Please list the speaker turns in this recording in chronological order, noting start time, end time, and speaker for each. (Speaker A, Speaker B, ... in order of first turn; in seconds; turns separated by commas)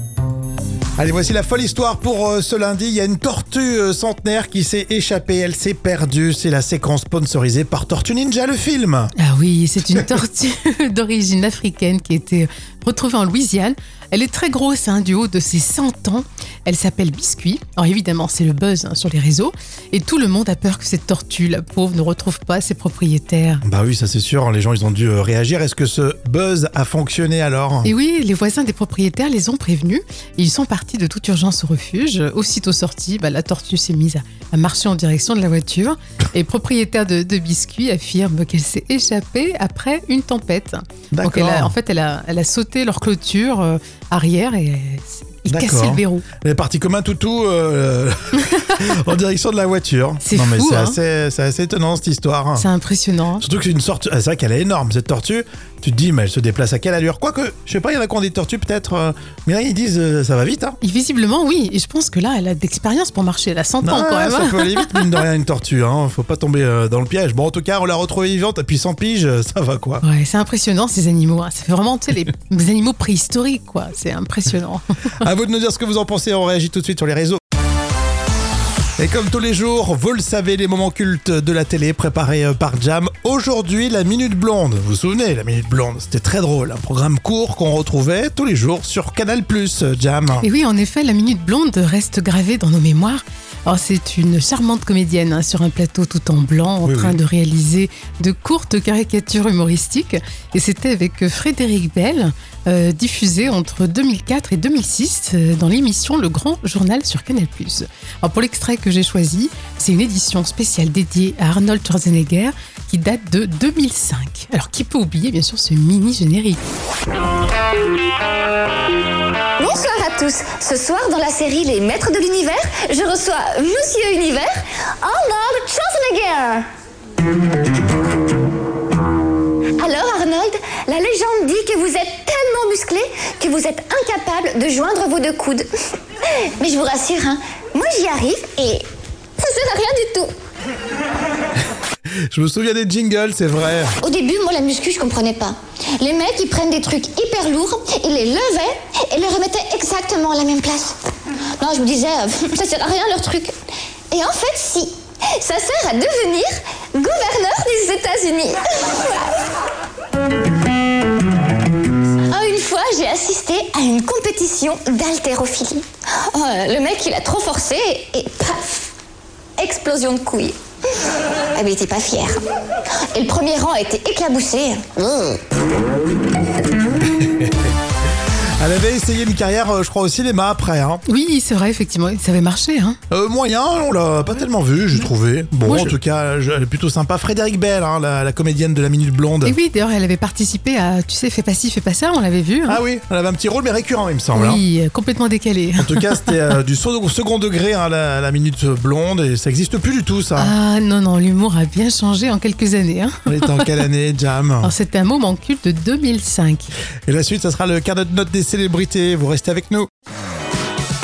Speaker A: 1.0-9.1, Speaker B: 9.2-23.6, Speaker A: 23.6-27.9, Speaker B: 27.8-46.2, Speaker A: 41.1-41.7, Speaker A: 45.5-52.7, Speaker B: 50.2-51.0, Speaker B: 52.5-53.4, Speaker A: 53.4-60.8, Speaker B: 60.8-65.1, Speaker A: 63.8-70.0, Speaker B: 70.0-74.8, Speaker A: 75.2-77.4, Speaker A: 79.0-90.5, Speaker B: 90.4-116.6, Speaker A: 96.8-97.2, Speaker C: 119.6-126.7, Speaker C: 129.8-135.7, Speaker C: 136.2-138.9, Speaker C: 139.4-140.3, Speaker A: 142.3-143.9, Speaker C: 144.0-150.9, Speaker C: 151.6-153.5, Speaker C: 154.1-159.3, Speaker C: 162.3-168.9, Speaker C: 169.6-170.6, Speaker C: 171.5-172.4, Speaker C: 173.1-175.4, Speaker A: 177.0-177.7, Speaker A: 178.6-181.0, Speaker B: 181.1-183.0, Speaker A: 183.1-189.6, Speaker B: 185.6-185.9, Speaker B: 189.4-192.8, Speaker A: 192.7-194.6, Speaker B: 194.3-196.3, Speaker A: 195.8-200.5, Speaker B: 200.3-203.7, Speaker A: 203.2-204.7, Speaker B: 204.6-206.7, Speaker A: 207.1-209.9